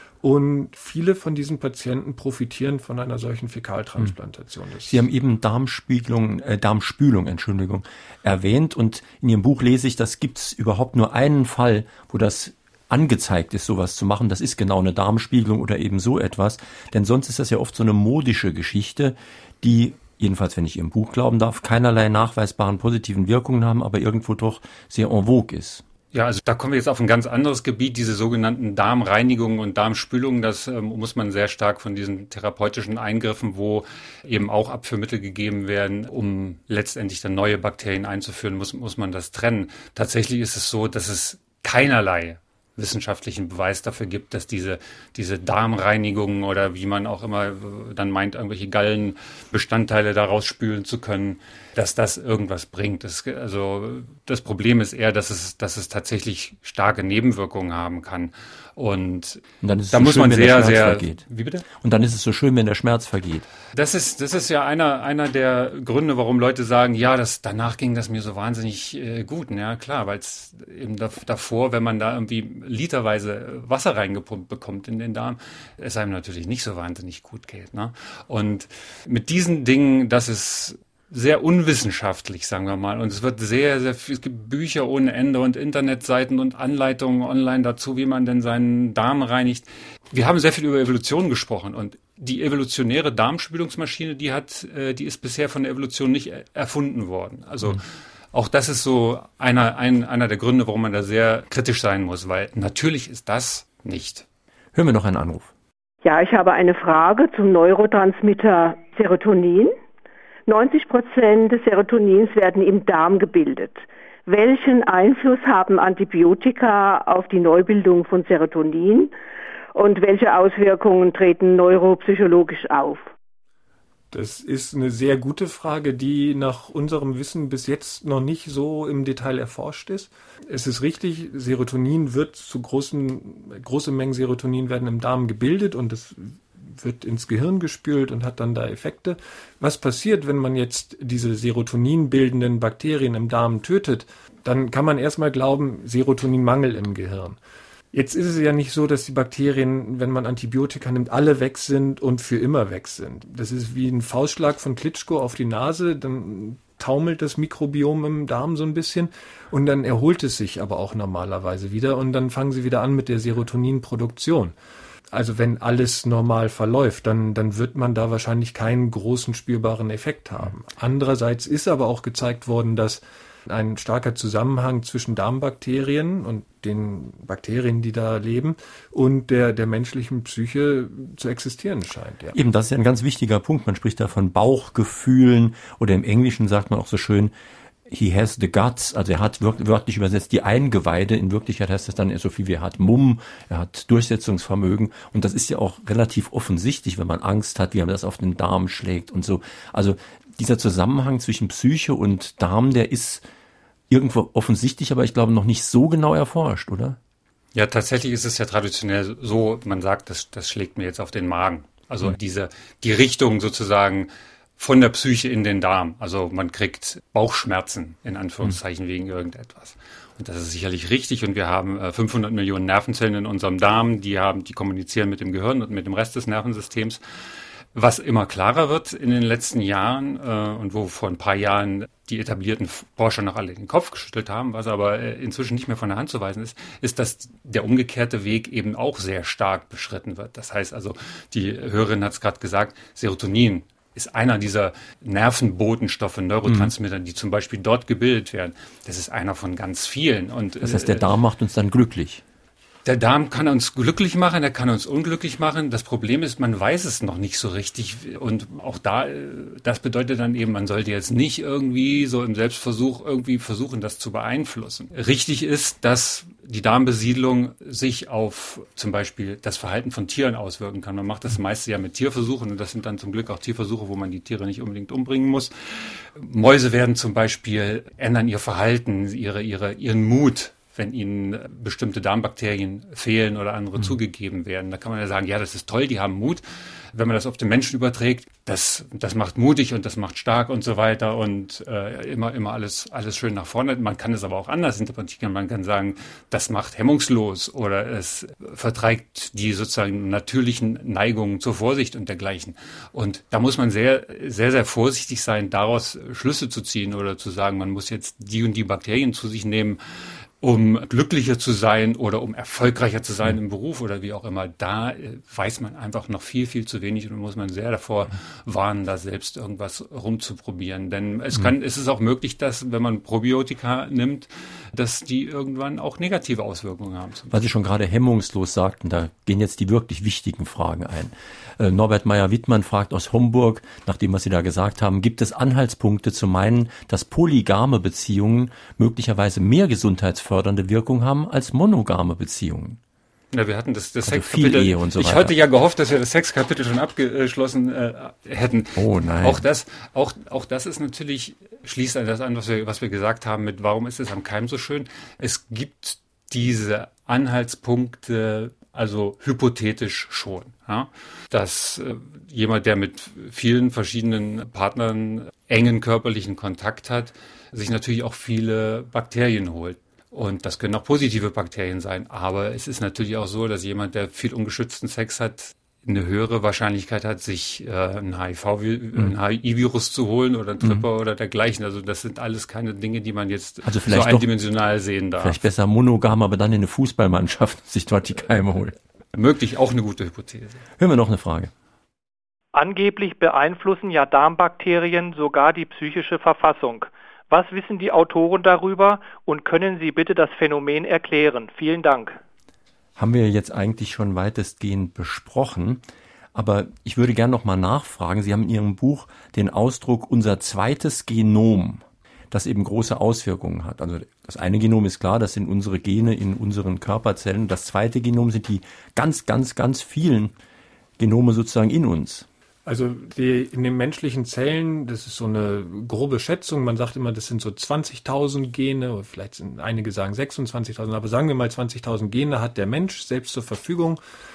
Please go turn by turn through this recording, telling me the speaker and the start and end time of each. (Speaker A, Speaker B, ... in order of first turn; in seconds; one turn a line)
Speaker A: 0.2-5.0
Speaker B: 4.9-25.8
Speaker C: 26.1-61.6
Speaker B: 59.6-63.5
Speaker C: 63.7-97.8
Speaker C: 98.3-104.2
Speaker B: 104.7-105.5
Speaker D: 106.0-109.8
Speaker D: 110.5-119.1
Speaker D: 119.7-123.1
Speaker A: 124.1-147.4
Speaker A: 147.9-164.5
Speaker A: 165.1-182.3
Speaker B: 182.3-187.3
Speaker B: 187.9-203.2
Speaker B: 203.9-207.0
Speaker C: 207.5-227.0
Speaker C: 227.7-251.1
Speaker B: 246.4-246.7
Speaker B: 250.6-252.2
Speaker C: 252.8-309.8
Speaker C: 310.4-327.3
Speaker B: 327.3-342.8
Speaker C: 343.3-385.4
Speaker B: 344.0-345.4
Speaker B: 348.7-349.4
Speaker B: 383.6-384.3
Speaker B: 385.2-388.7
Speaker C: 389.1-390.6
Speaker B: 390.8-391.5
Speaker E: 392.5-402.2
Speaker B: 402.9-420.3
Speaker B: 421.0-422.3
Speaker A: 422.6-434.0